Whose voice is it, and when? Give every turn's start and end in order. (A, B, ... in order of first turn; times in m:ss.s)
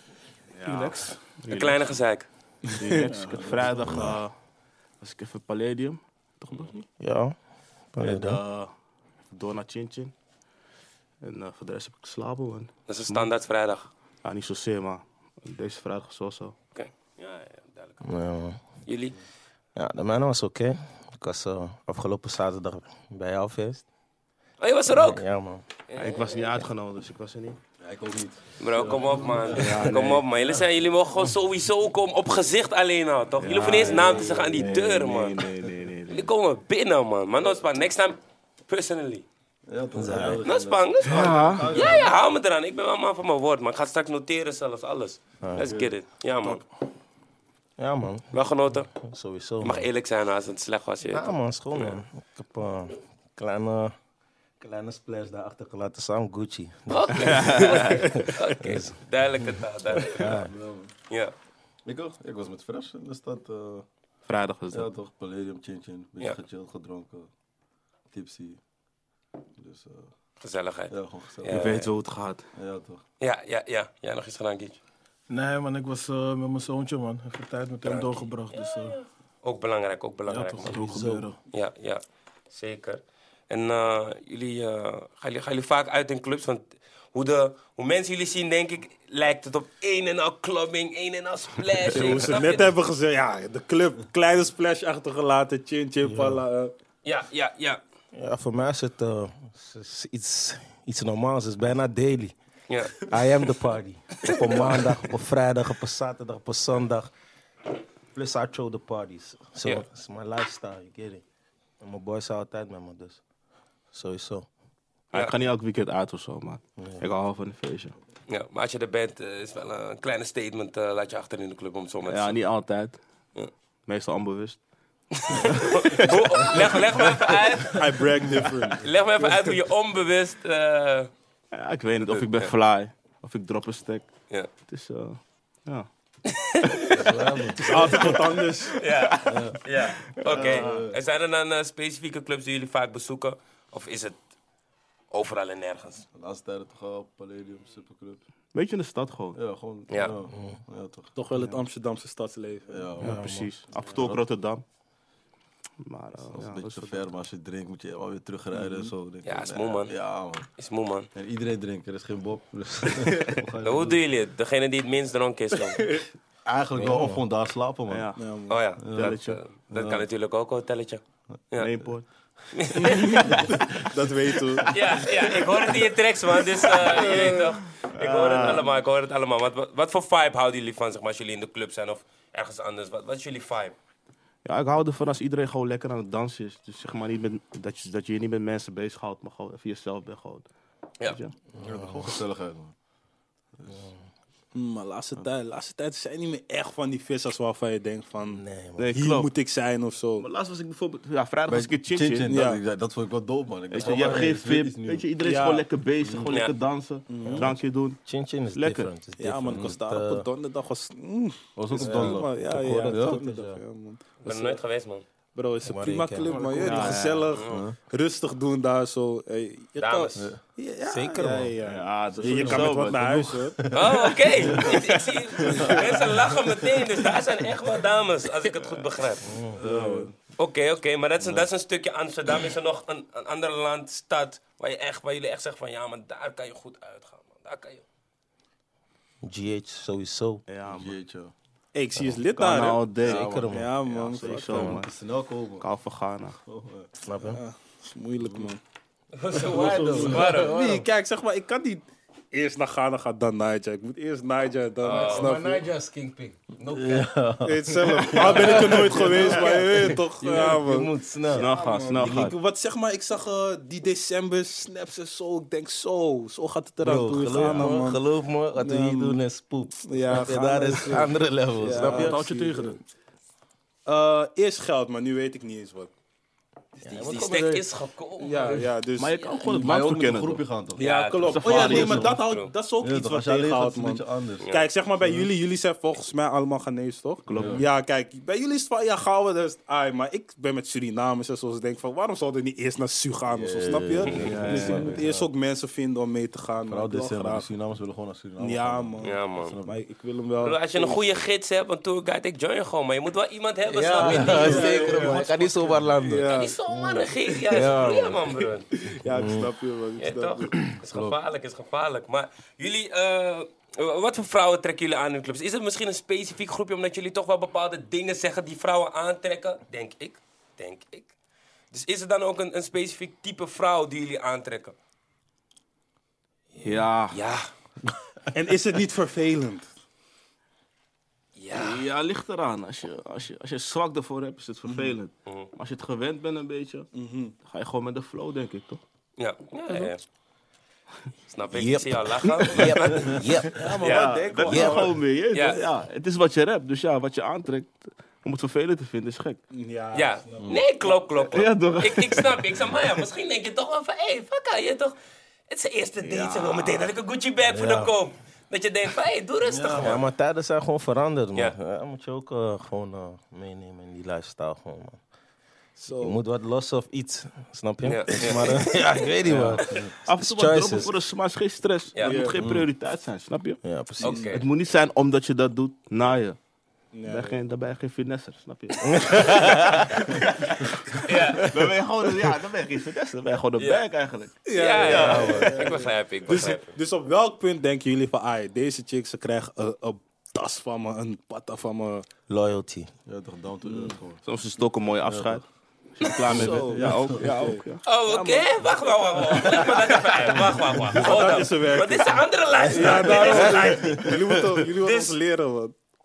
0:00.5-0:02.0 A
0:00.6-0:01.2 B
0:01.5-0:02.3 C
0:02.7-0:04.3 A
0:02.9-0:04.1 B
0:03.8-0:04.2 D
0:05.0-0:06.9 A
0:07.0-0:07.4 D
0:07.9-0:08.4 D
0:08.0-0:08.7 A
0:09.3-0:10.1 A
0:11.2-0:13.3 A
0:12.9-0:13.9 C
0:14.2-0:16.6 A
0:16.8-0:18.0 C
0:18.0-0:18.6 D
0:18.9-0:19.2 C
0:19.8-0:23.8 D
0:24.6-0:25.2 C
0:24.9-0:25.6 D
0:25.9-0:26.4 C
0:26.0-0:27.6 A
0:27.8-0:30.1 E
0:28.6-0:35.4 C
0:29.5-0:30.3 A
0:33.4-0:36.3 A
0:36.1-0:38.2 C
0:38.7-0:39.2 C
0:39.7-0:42.2 E
0:40.0-0:40.4 D
0:40.4-0:46.6 C
0:41.0-0:42.0 A
0:45.4-0:45.7 D
0:45.6-0:46.0 E
0:47.8-0:49.9 D
0:48.3-0:48.9 C
0:49.6-0:52.0 C
0:51.1-0:54.0 D
0:54.6-0:59.5 D
0:56.9-1:00.4 C
0:57.2-0:57.9 A
1:00.1-1:00.5 D
1:00.5-1:00.9 E
1:01.8-1:03.9 E
1:04.3-1:04.9 A
1:04.7-1:07.3 E
1:08.1-1:08.6 E
1:09.6-1:10.1 E
1:10.4-1:11.9 C
1:10.9-1:11.8 E
1:11.5-1:12.4 A
1:12.6-1:13.0 E
1:13.2-1:14.8 C
1:15.3-1:19.0 B
1:17.8-1:20.9 C
1:20.3-1:21.4 B
1:20.7-1:21.2 D
1:21.5-1:32.7 C
1:31.9-1:36.7 F
1:36.0-1:36.4 D
1:37.0-1:37.8 C
1:38.1-1:42.4 D
1:42.7-1:43.0 C
1:42.9-1:47.1 D
1:44.3-1:44.8 C
1:48.1-1:51.2 D
1:51.8-1:53.2 D
1:53.9-1:54.5 D
1:55.1-1:58.0 A
1:58.3-2:02.4 C
2:02.1-2:03.0 A
2:03.9-2:04.6 A
2:05.2-2:07.8 C
2:05.3-2:07.0 A
2:07.8-2:09.3 F
2:08.8-2:11.1 C
2:11.5-2:14.1 A
2:12.1-2:12.5 C
2:14.7-2:15.9 A
2:16.4-2:17.2 C
2:17.0-2:18.1 D
2:17.6-2:18.8 F
2:18.0-2:18.4 A
2:18.8-2:24.2 C
2:19.1-2:19.5 A
2:19.3-2:19.6 E
2:20.2-2:20.8 A
2:20.3-2:21.0 E
2:25.1-2:26.1 C
2:26.2-2:28.2 E
2:28.5-2:29.4 A
2:29.3-2:31.2 E
2:29.9-2:30.2 C
2:30.3-2:30.6 D
2:31.2-2:32.9 F
2:32.7-2:33.2 E
2:33.0-2:33.8 D
2:33.0-2:34.6 A
2:33.9-2:34.2 E
2:35.8-2:37.1 A
2:36.3-2:40.5 E
2:38.5-2:38.9 F
2:39.2-2:40.0 C
2:40.6-2:41.1 C
2:41.2-2:44.0 E
2:43.6-2:45.8 C
2:45.7-2:46.0 F
2:46.4-2:48.1 E
2:46.8-2:47.2 D
2:47.9-2:48.2 A
2:48.2-2:48.6 F
2:48.5-2:51.7 C
2:48.8-2:50.1 E
2:48.9-2:49.4 A
2:51.5-2:52.1 A
2:52.5-2:53.4 C
2:52.8-2:55.7 F
2:53.2-2:54.6 E
2:54.7-3:03.8 C
2:56.6-2:57.5 F
2:57.9-2:58.6 A
3:04.4-3:10.5 A
3:11.0-3:11.4 A
3:11.6-3:12.1 D
3:11.6-3:12.7 E
3:13.6-3:13.9 E
3:13.7-3:14.0 D
3:14.5-3:18.4 F
3:18.2-3:18.9 D
3:18.8-3:19.3 A
3:18.9-3:20.2 F
3:20.2-3:22.5 A
3:21.5-3:25.1 E
3:22.3-3:22.6 F
3:23.7-3:28.0 A
3:25.2-3:25.6 F
3:26.0-3:26.3 E
3:26.3-3:26.5 C
3:27.1-3:27.5 F
3:28.1-3:30.3 D
3:28.5-3:28.9 A
3:29.2-3:34.6 F
3:31.6-3:33.2 E
3:31.8-3:33.6 D
3:34.2-3:35.1 C
3:35.4-3:43.6 F
3:35.6-3:36.7 D
3:36.3-3:36.9 B
3:36.6-3:37.4 A
3:37.3-3:37.6 C
3:37.4-3:37.8 E
3:39.8-3:40.3 C
3:40.2-3:40.4 E
3:40.9-3:41.6 D
3:41.6-3:43.1 A
3:42.2-3:44.8 E
3:43.0-3:43.3 D
3:43.7-3:49.4 C
3:45.4-3:46.6 E
3:45.5-3:46.0 F
3:49.2-3:49.6 D
3:49.6-3:50.1 E
3:49.6-3:50.1 A
3:50.4-3:57.8 C
3:59.2-4:00.4 D
4:00.5-4:00.9 A
4:00.7-4:01.3 E
4:01.7-4:04.8 F
4:02.0-4:02.2 D
4:02.4-4:04.9 A
4:03.0-4:03.6 E
4:03.1-4:03.8 D
4:04.4-4:05.7 E
4:05.6-4:06.4 A
4:06.5-4:06.9 E
4:07.0-4:07.4 D
4:07.3-4:08.6 F
4:08.2-4:08.5 E
4:09.2-4:10.6 C
4:09.4-4:10.4 E
4:09.4-4:10.8 D
4:09.8-4:10.2 B
4:10.2-4:15.6 F
4:14.8-4:15.4 C
4:14.9-4:17.1 D
4:16.6-4:19.2 E
4:17.4-4:28.0 F
4:18.2-4:18.5 A
4:18.2-4:22.3 D
4:21.3-4:22.4 A
4:26.8-4:27.9 E
4:26.9-4:32.2 D
4:28.6-4:29.2 F
4:29.9-4:32.6 F
4:31.7-4:32.8 A
4:33.9-4:35.9 F
4:36.8-4:37.7 D
4:36.8-4:38.7 C
4:38.2-4:39.3 F
4:39.0-4:40.5 A
4:39.4-4:40.9 E
4:40.8-4:57.5 F
4:40.8-4:42.5 C
4:41.2-4:42.2 A
4:41.5-4:42.2 E
4:42.8-4:44.5 E
4:44.4-4:44.7 C
4:45.0-4:45.3 E
4:47.3-4:47.6 A
4:47.3-4:47.7 E
4:53.3-4:55.3 E
4:54.2-4:55.0 A
4:56.7-4:59.8 E
4:58.4-5:01.1 F
4:59.0-4:59.6 C
5:00.4-5:05.6 C
5:03.7-5:06.4 D
5:04.0-5:04.6 E
5:04.1-5:06.6 F
5:04.3-5:04.7 B
5:06.3-5:08.7 C
5:07.5-5:08.2 D
5:08.9-5:10.6 F
5:09.1-5:09.5 D
5:10.0-5:21.1 C
5:10.9-5:11.2 E
5:21.7-5:24.8 C
5:26.6-5:27.2 A
5:27.1-5:27.5 C
5:28.3-5:29.7 F
5:31.4-5:31.8 C
5:31.5-5:36.9 A
5:34.7-5:35.0 F
5:36.9-5:37.3 F
5:37.4-5:38.8 A
5:39.2-5:40.0 C
5:41.3-5:44.5 C
5:41.5-5:43.8 D
5:43.6-5:44.9 B
5:43.8-5:49.4 A
5:44.4-5:45.0 D
5:45.3-5:45.6 C
5:49.5-5:50.6 F
5:49.9-5:55.0 C
5:51.2-5:52.8 A
5:55.5-6:00.0 C
5:56.0-5:56.9 A
5:57.4-5:57.9 D
5:59.4-6:00.0 B
5:59.8-6:05.0 D
6:05.8-6:06.2 F
6:05.9-6:10.9 D
6:07.8-6:09.1 C
6:09.2-6:13.6 A
6:09.3-6:09.9 E
6:12.0-6:12.3 C
6:12.0-6:12.4 F
6:12.4-6:12.7 E
6:13.6-6:14.3 D
6:14.0-6:14.5 C
6:14.2-6:16.4 A
6:16.9-6:17.4 F
6:17.1-6:26.4 A
6:18.9-6:20.1 D
6:21.0-6:21.5 C
6:23.6-6:23.8 C
6:24.5-6:32.0 F
6:24.5-6:26.8 C
6:24.8-6:25.5 D
6:32.3-6:32.9 D
6:33.1-6:34.2 E
6:33.6-6:33.9 F
6:34.2-6:37.8 A
6:35.0-6:35.4 E
6:36.2-6:37.3 E
6:36.3-6:38.7 F
6:37.8-6:44.1 C
6:39.4-6:45.8 F
6:43.2-6:43.6 D
6:43.7-6:44.6 E
6:44.8-6:45.2 C